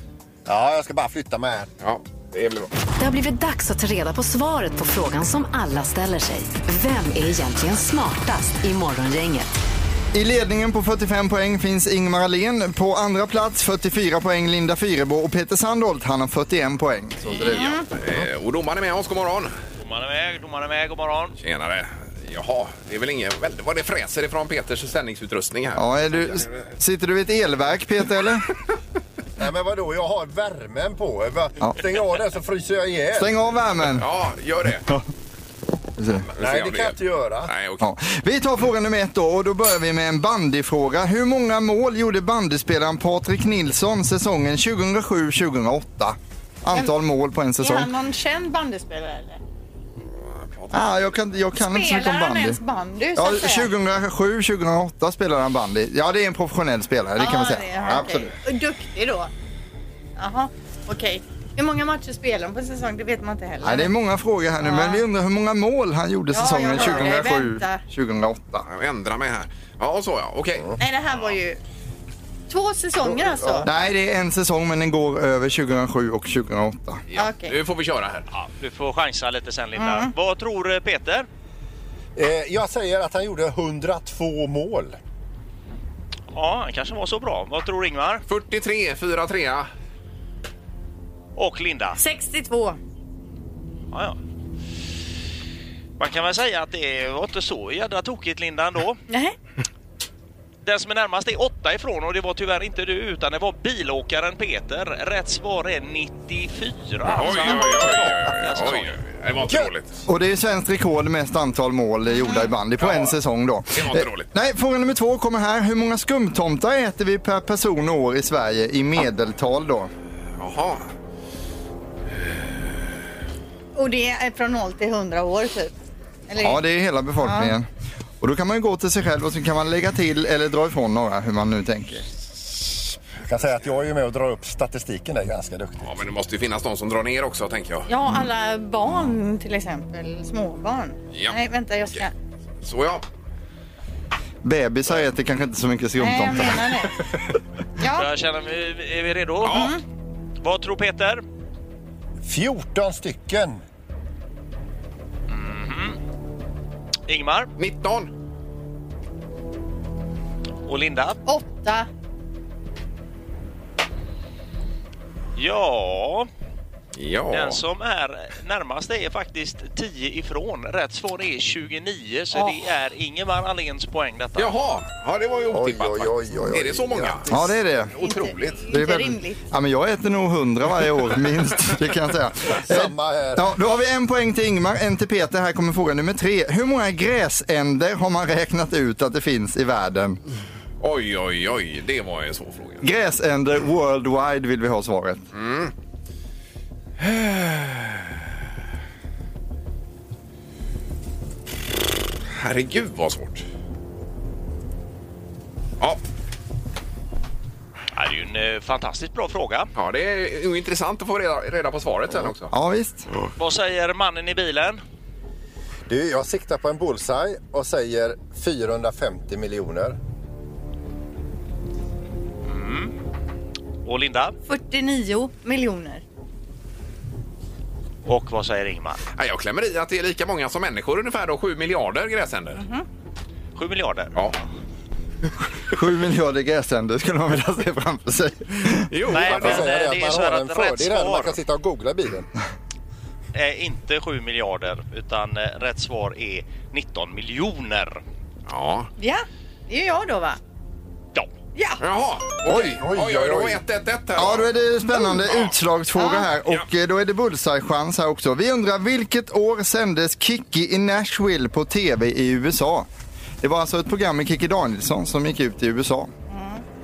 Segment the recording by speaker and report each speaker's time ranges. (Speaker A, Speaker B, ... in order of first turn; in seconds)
Speaker A: 0.5-1.7, 29.4-33.3, 36.4-37.5, 82.2-85.0, 133.2-136.0, 152.2-153.6, 175.5-177.5, 182.6-183.4, 215.9-220.0, 239.3-242.3, 252.5-253.6
Speaker B: 1.8-2.7, 17.4-19.5, 21.4-25.8, 34.0-34.9, 36.3-37.9, 50.5-51.0, 68.7-70.7, 77.1-78.2, 88.3-89.7, 107.0-109.9, 112.8-113.2, 113.7-114.3, 120.4-120.8, 135.8-137.9, 142.6-143.0, 149.4-149.7, 157.6-158.1, 166.9-167.6, 174.4-177.3, 177.9-178.6, 190.8-192.8, 195.3-195.7, 197.0-198.0, 202.3-203.4, 209.8-212.5, 229.2-232.6, 238.9-239.7, 248.5-248.9, 251.8-254.5, 255.2-255.5
Speaker C: 3.0-9.5
Speaker D: 10.1-17.7, 25.8-28.5, 33.1-34.1, 36.0-36.3, 37.8-47.9, 50.7-52.6, 53.1-58.3, 63.6-68.6, 73.6-77.0, 110.1-119.9, 126.4-127.7, 128.2-132.1, 144.4-146.9, 177.3-177.9, 178.7-190.2, 192.8-195.2, 212.5-213.1, 235.7-238.9, 254.2-262.9, 263.4-266.1
Speaker E: 17.4-17.8, 47.6-49.4, 51.6-53.7, 57.2-59.3, 60.2-63.9, 64.6-65.0, 66.3-67.8, 70.8-71.6, 72.5-73.7, 77.1-77.5, 79.8-80.1, 92.0-92.8, 99.1-99.3, 112.2-112.5, 123.8-125.7, 126.3-126.6, 127.2-127.5, 137.9-142.1, 146.0-146.9, 147.8-148.1, 149.5-149.8, 161.2-161.9, 178.0-179.4, 224.5-226.0, 232.6-232.8, 249.0-250.4, 251.5-251.8, 256.0-256.2, 266.3-266.6
Speaker F: 19.8-21.4, 78.3-81.2, 86.3-88.2, 91.3-92.0, 93.9-94.2, 96.0-99.0, 100.6-109.0, 147.9-149.7, 150.4-151.2, 155.3-156.0, 157.1-157.5, 160.7-161.2, 165.3-166.3, 167.3-174.5, 207.9-209.7, 213.4-214.8, 222.4-222.9, 223.8-224.3, 228.1-229.0, 233.6-234.1, 239.1-241.4, 243.3-248.0